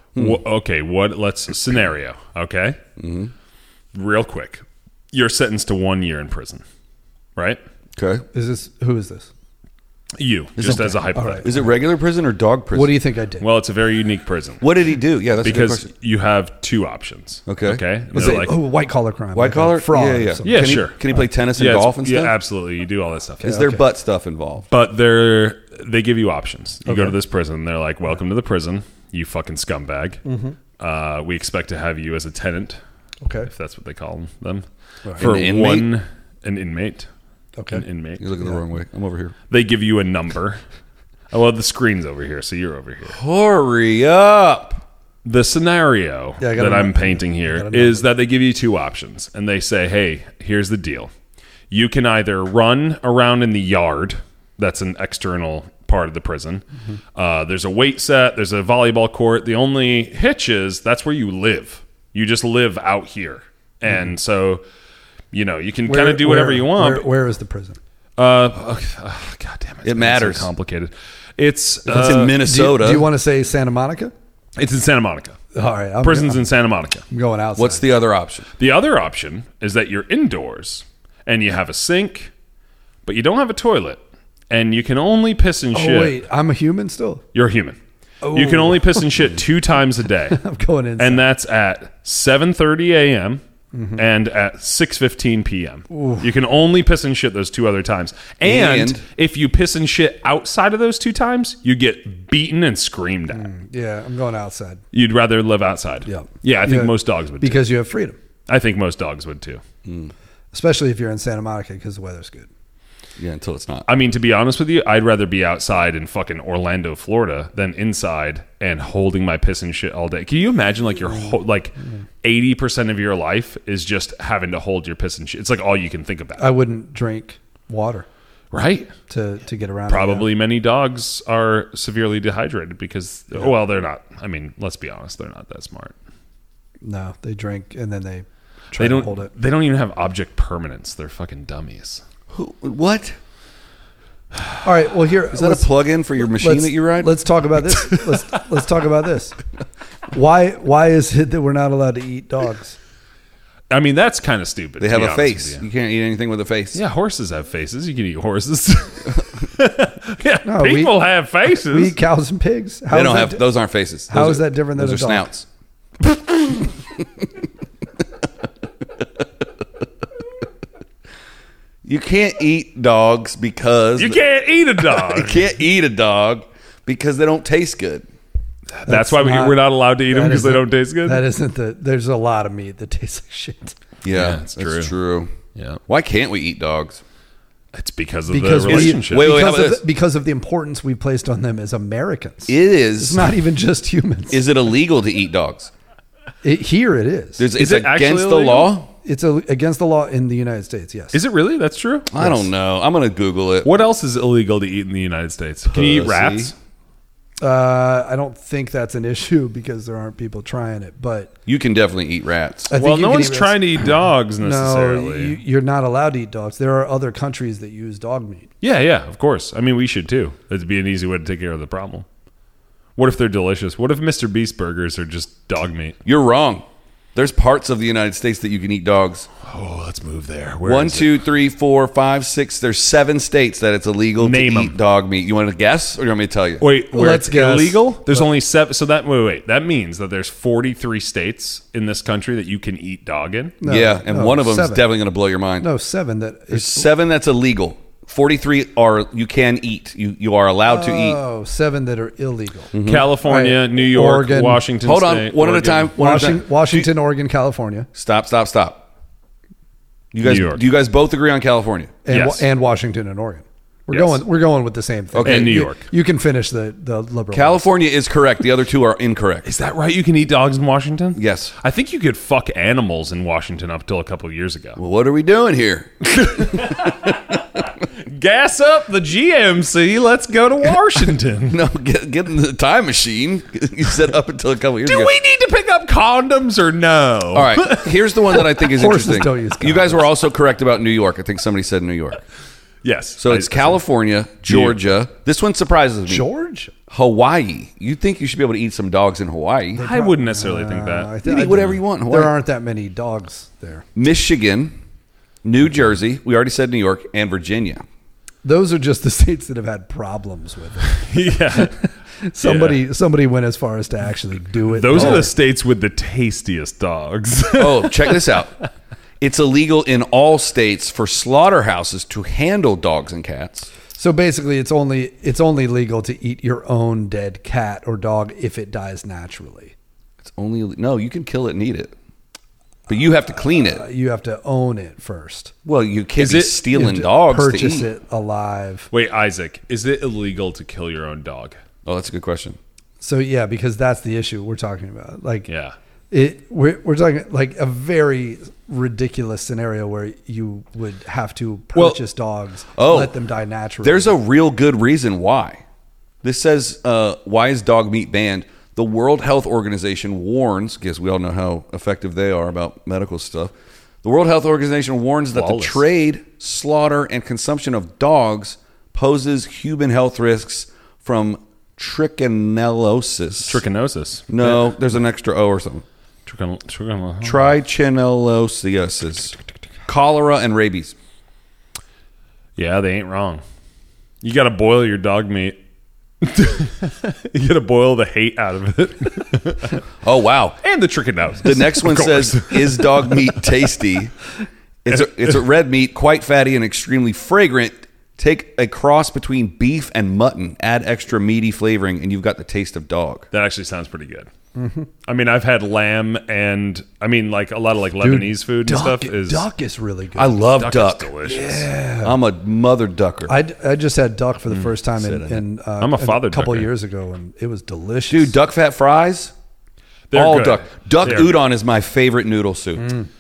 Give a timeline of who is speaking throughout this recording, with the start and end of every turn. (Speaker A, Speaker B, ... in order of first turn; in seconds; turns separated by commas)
Speaker A: 0.1-2.8, Speaker B: 3.0-3.3, Speaker A: 3.9-6.6, Speaker A: 7.3-7.6, Speaker B: 8.0-8.2, Speaker C: 8.3-9.3, Speaker A: 10.2-11.7, Speaker B: 10.6-12.9, Speaker C: 10.7-11.7, Speaker C: 12.7-13.4, Speaker A: 13.4-14.6, Speaker B: 14.6-15.9, Speaker A: 15.4-18.5, Speaker B: 17.5-17.8, Speaker C: 18.1-20.8, Speaker B: 19.3-22.3, Speaker A: 20.4-23.6, Speaker B: 23.4-24.7, Speaker C: 23.4-23.8, Speaker A: 24.7-30.2, Speaker C: 26.9-27.2, Speaker C: 30.2-30.6, Speaker A: 30.8-32.8, Speaker C: 33.2-33.5, Speaker A: 33.5-37.1, Speaker B: 35.2-35.9, Speaker C: 37.6-37.8, Speaker A: 37.7-38.2, Speaker B: 38.2-39.3, Speaker A: 39.5-40.6, Speaker A: 41.3-43.2, Speaker B: 43.1-44.8, Speaker A: 45.2-51.1, Speaker C: 46.4-48.0, Speaker A: 51.7-64.6, Speaker A: 65.3-67.1, Speaker C: 65.8-67.8, Speaker A: 68.2-72.3, Speaker B: 69.8-70.5, Speaker B: 71.9-73.0, Speaker C: 71.9-74.1, Speaker A: 74.6-75.4, Speaker C: 75.5-76.5, Speaker A: 76.0-77.0, Speaker C: 77.1-77.8, Speaker B: 77.5-78.5, Speaker A: 78.6-82.3, Speaker A: 83.0-86.2, Speaker C: 85.7-87.2, Speaker A: 87.3-87.8, Speaker C: 88.2-89.1, Speaker A: 88.3-90.4, Speaker C: 90.3-91.2, Speaker A: 91.0-93.4, Speaker C: 93.7-94.0, Speaker A: 94.0-103.5, Speaker C: 95.9-96.3, Speaker B: 98.4-99.0, Speaker C: 103.3-104.8, Speaker A: 104.9-107.7, Speaker C: 106.0-108.2, Speaker A: 108.5-109.6, Speaker B: 109.8-110.1, Speaker C: 110.5-112.5, Speaker B: 113.2-113.8, Speaker A: 113.9-126.5, Speaker C: 126.4-128.1, Speaker A: 128.5-128.9, Speaker C: 129.1-130.3, Speaker A: 129.9-135.9, Speaker C: 136.8-139.3, Speaker A: 138.8-142.0, Speaker B: 142.3-143.2, Speaker C: 144.6-149.4, Speaker B: 145.3-147.1, Speaker C: 150.1-152.8, Speaker A: 153.7-155.6, Speaker B: 154.8-156.8, Speaker A: 156.7-161.9, Speaker C: 160.4-163.5, Speaker B: 162.9-165.4, Speaker C: 164.1-165.3, Speaker B: 171.8-174.2, Speaker A: 174.0-175.4, Speaker B: 174.9-178.0, Speaker A: 178.7-181.2, Speaker C: 178.9-183.8, Speaker B: 184.0-185.3, Speaker A: 184.1-184.9, Speaker A: 185.5-185.8, Speaker B: 185.9-187.0, Speaker A: 187.7-189.4, Speaker C: 188.3-194.4, Speaker B: 188.7-189.8, Speaker B: 192.5-193.3, Speaker B: 194.3-195.7, Speaker C: 196.4-197.4, Speaker B: 197.4-198.9, Speaker A: 197.6-198.7, Speaker C: 199.0-201.2, Speaker A: 201.1-202.1, Speaker B: 202.1-203.7, Speaker A: 203.6-206.5, Speaker B: 205.7-206.5, Speaker C: 207.4-211.3, Speaker B: 211.4-212.7, Speaker C: 212.7-213.8, Speaker A: 212.7-215.4, Speaker C: 214.4-218.5, Speaker A: 218.6-222.1, Speaker A: 222.9-226.0, Speaker B: 226.0-229.3, Speaker A: 229.4-231.2, Speaker B: 230.6-236.6, Speaker A: 234.2-234.8, Speaker A: 236.6-243.6, Speaker C: 236.9-238.3, Speaker C: 243.6-244.8, Speaker B: 243.7-245.7, Speaker C: 245.6-246.9, Speaker B: 246.5-251.2, Speaker C: 250.7-254.6, Speaker B: 252.7-253.1, Speaker A: 252.8-255.9, Speaker B: 254.8-256.9, Speaker C: 255.9-257.9, Speaker B: 257.9-258.8, Speaker B: 260.1-261.9, Speaker A: 260.2-260.6, Speaker C: 262.0-267.7, Speaker A: 262.1-262.4, Speaker A: 263.9-264.2, Speaker B: 265.1-265.6, Speaker A: 265.2-265.8, Speaker B: 267.3-269.4, Speaker A: 269.4-274.8, Speaker B: 271.1-271.5, Speaker B: 274.8-276.9, Speaker A: 276.1-281.6, Speaker B: 281.5-285.1, Speaker A: 284.8-288.5, Speaker B: 287.3-292.2, Speaker C: 288.6-290.1, Speaker A: 292.8-293.8, Speaker B: 293.2-296.3, Speaker A: 294.5-294.8, Speaker C: 296.1-296.7, Speaker B: 296.9-299.8, Speaker C: 299.7-303.9, Speaker A: 299.8-301.1, Speaker B: 301.2-302.3, Speaker B: 303.9-304.7, Speaker B: 305.4-307.8, Speaker C: 308.4-315.3, Speaker A: 310.9-311.9, Speaker A: 312.4-312.8, Speaker A: 314.7-318.4, Speaker B: 314.9-315.3, Speaker B: 317.6-318.5, Speaker B: 319.2-323.7, Speaker C: 323.9-329.7, Speaker B: 330.2-331.9, Speaker B: 332.9-333.8, Speaker C: 333.4-335.5, Speaker B: 335.6-337.9, Speaker A: 336.2-336.6, Speaker C: 336.7-338.9, Speaker A: 338.9-341.6, Speaker B: 341.8-342.6, Speaker C: 343.0-345.5, Speaker A: 345.5-345.7, Speaker C: 346.1-354.1, Speaker B: 352.7-353.1, Speaker B: 353.8-355.6, Speaker B: 356.2-373.6, Speaker A: 365.3-365.8, Speaker A: 373.5-374.7, Speaker B: 374.3-375.8, Speaker A: 376.2-377.5, Speaker B: 377.2-379.4, Speaker B: 379.9-380.9, Speaker A: 382.6-383.4, Speaker A: 384.2-385.6, Speaker A: 386.2-389.8, Speaker B: 390.0-390.6, Speaker A: 390.6-393.4, Speaker B: 391.4-394.1, Speaker B: 394.8-403.3, Speaker A: 394.9-395.3, Speaker A: 403.3-404.3, Speaker C: 404.5-404.9, Speaker A: 405.0-409.4, Speaker C: 408.0-410.4, Speaker B: 410.1-411.1, Speaker A: 410.4-411.7, Speaker C: 411.2-412.2, Speaker B: 412.0-413.4, Speaker C: 413.3-418.3, Speaker B: 415.0-415.4, Speaker A: 415.8-416.7, Speaker B: 418.1-419.3, Speaker A: 420.1-421.4, Speaker B: 420.1-423.0, Speaker C: 422.8-423.1